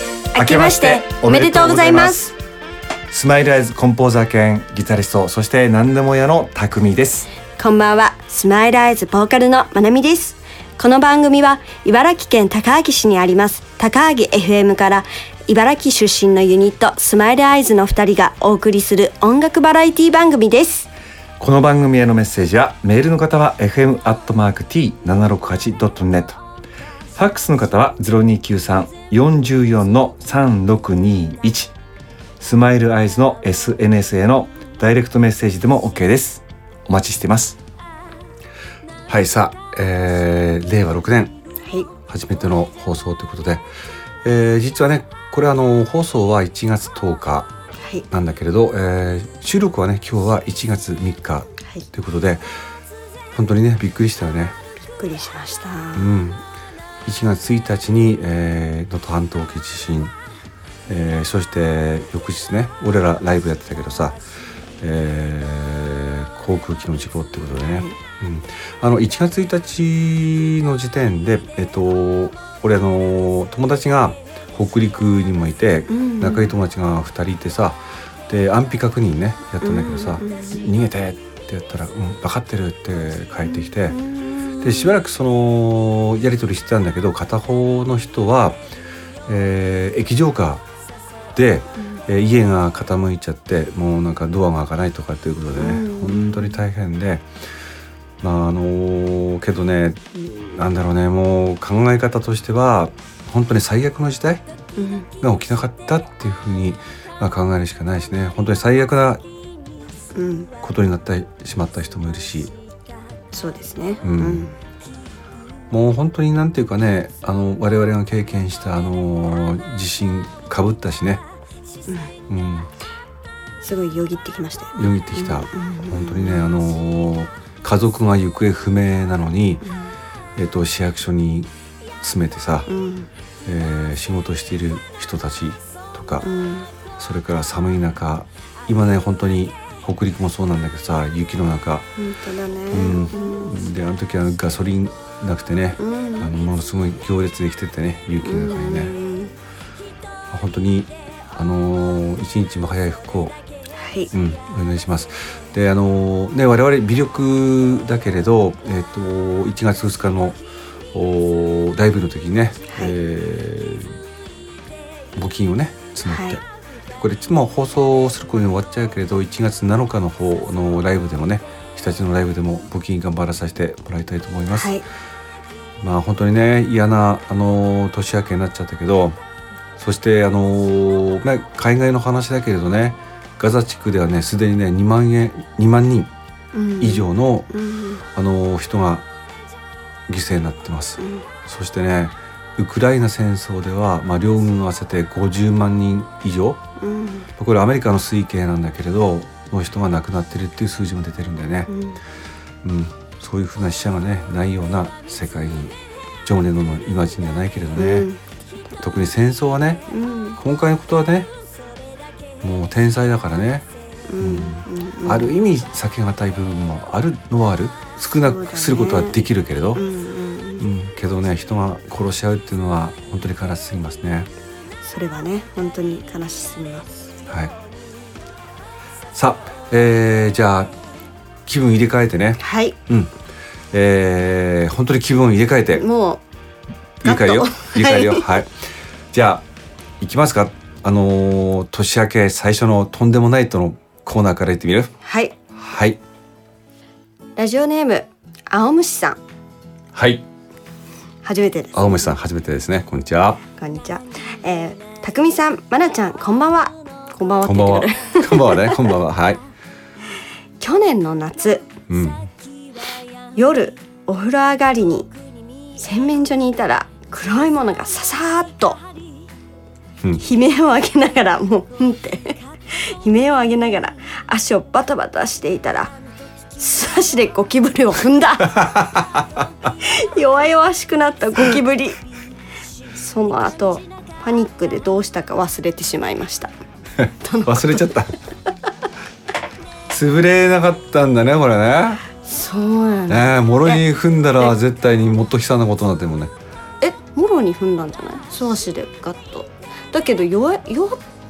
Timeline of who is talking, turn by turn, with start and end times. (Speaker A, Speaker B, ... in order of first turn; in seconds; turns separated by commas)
Speaker A: 0.3-2.3, Speaker B: 0.4-1.2, Speaker C: 0.4-2.2, Speaker C: 3.1-7.3, Speaker A: 7.5-20.9, Speaker C: 21.4-26.4, Speaker C: 27.1-31.7, Speaker C: 32.4-37.6, Speaker B: 39.1-41.3, Speaker A: 41.6-41.9, Speaker B: 42.1-43.6, Speaker B: 44.2-47.5, Speaker A: 47.8-48.0, Speaker B: 48.1-52.4, Speaker B: 53.3-54.5, Speaker A: 54.8-56.1, Speaker B: 55.9-56.4, Speaker B: 57.0-60.1, Speaker B: 60.9-64.2, Speaker B: 64.8-84.0, Speaker A: 67.6-68.0, Speaker A: 75.9-76.5, Speaker A: 79.6-80.7, Speaker A: 83.5-84.9, Speaker B: 84.6-88.6, Speaker B: 89.3-90.6, Speaker B: 91.3-97.3, Speaker A: 95.5-96.6, Speaker B: 98.2-104.4, Speaker A: 104.8-105.1, Speaker B: 105.2-109.2, Speaker A: 110.1-110.5, Speaker B: 110.6-112.5, Speaker A: 113.3-114.5, Speaker B: 114.0-114.5, Speaker B: 115.7-121.2, Speaker A: 121.9-122.1, Speaker B: 122.3-122.7, Speaker A: 123.6-126.5, Speaker B: 124.7-129.6, Speaker A: 129.6-129.9, Speaker B: 130.3-131.5, Speaker B: 132.0-132.7, Speaker A: 132.7-133.1, Speaker B: 133.4-136.2, Speaker A: 136.2-136.7, Speaker B: 137.0-141.9, Speaker A: 142.0-143.6, Speaker B: 142.7-148.9, Speaker A: 145.8-146.3, Speaker A: 148.2-149.3, Speaker B: 150.3-153.3, Speaker A: 153.8-154.1, Speaker B: 154.1-160.4, Speaker B: 160.9-163.9, Speaker A: 162.7-162.9, Speaker B: 165.1-174.8, Speaker A: 166.1-166.4, Speaker A: 174.5-174.8, Speaker B: 175.8-179.2, Speaker B: 179.8-186.1, Speaker A: 186.5-188.0, Speaker B: 186.8-187.5, Speaker B: 188.1-189.1, Speaker B: 190.1-196.6, Speaker A: 191.0-191.2, Speaker A: 196.8-197.3, Speaker B: 197.4-201.7, Speaker A: 201.7-202.0, Speaker B: 202.6-208.1, Speaker A: 207.8-208.2, Speaker B: 208.8-209.8, Speaker A: 209.9-210.4, Speaker B: 210.4-211.3, Speaker B: 212.4-213.7, Speaker A: 214.1-215.3, Speaker B: 214.2-219.8, Speaker A: 218.2-219.2, Speaker A: 219.7-220.7, Speaker B: 220.6-224.3, Speaker A: 224.8-227.1, Speaker B: 227.3-227.5, Speaker B: 229.1-230.7, Speaker B: 231.4-233.1, Speaker A: 232.4-232.8, Speaker B: 233.7-235.8, Speaker A: 235.7-236.2, Speaker B: 237.0-238.6, Speaker A: 237.0-238.4, Speaker B: 239.1-239.4, Speaker B: 240.0-244.9, Speaker A: 245.0-245.3, Speaker B: 245.5-246.0, Speaker A: 247.4-249.2, Speaker B: 249.9-250.2, Speaker A: 251.2-252.1, Speaker B: 251.7-253.4, Speaker A: 253.6-258.9, Speaker B: 257.4-259.4, Speaker A: 260.6-261.7, Speaker B: 261.9-262.3, Speaker A: 263.3-265.1, Speaker A: 265.8-268.8, Speaker A: 270.2-275.9, Speaker A: 276.6-278.9, Speaker B: 278.5-279.2, Speaker A: 279.8-282.0, Speaker A: 282.9-286.5, Speaker B: 287.0-288.1, Speaker A: 287.2-287.9, Speaker B: 289.9-292.0, Speaker A: 292.2-293.8, Speaker B: 293.1-296.3, Speaker A: 296.8-301.0